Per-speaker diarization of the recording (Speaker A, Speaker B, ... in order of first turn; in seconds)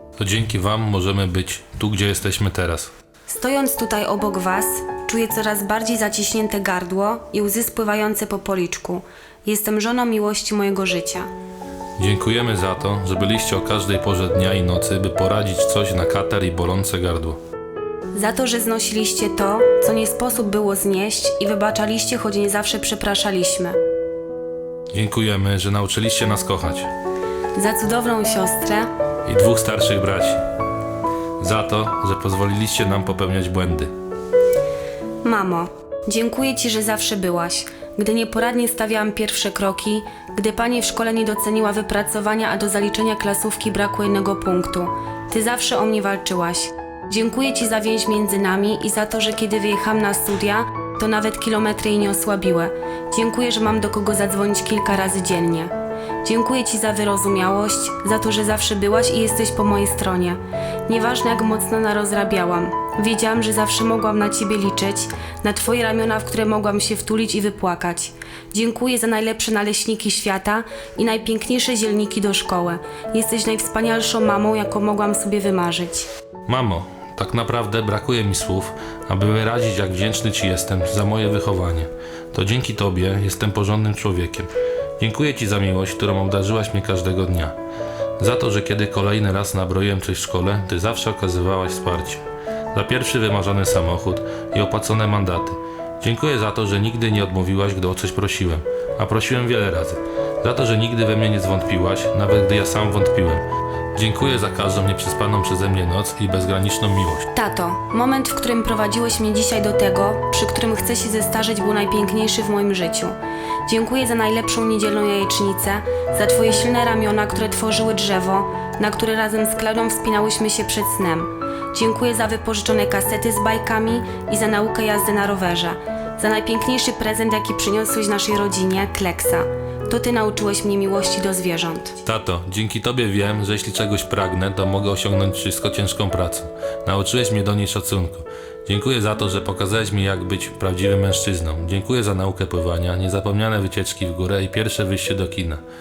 Speaker A: 0.2-2.9, 12.0-17.4, 24.9-26.9, 29.2-30.4, 31.4-33.9, 76.5-87.6, 88.2-107.3, 132.0-145.6
Speaker B: 3.3-11.3, 18.1-23.8, 27.6-28.9, 35.2-76.1, 107.3-132.0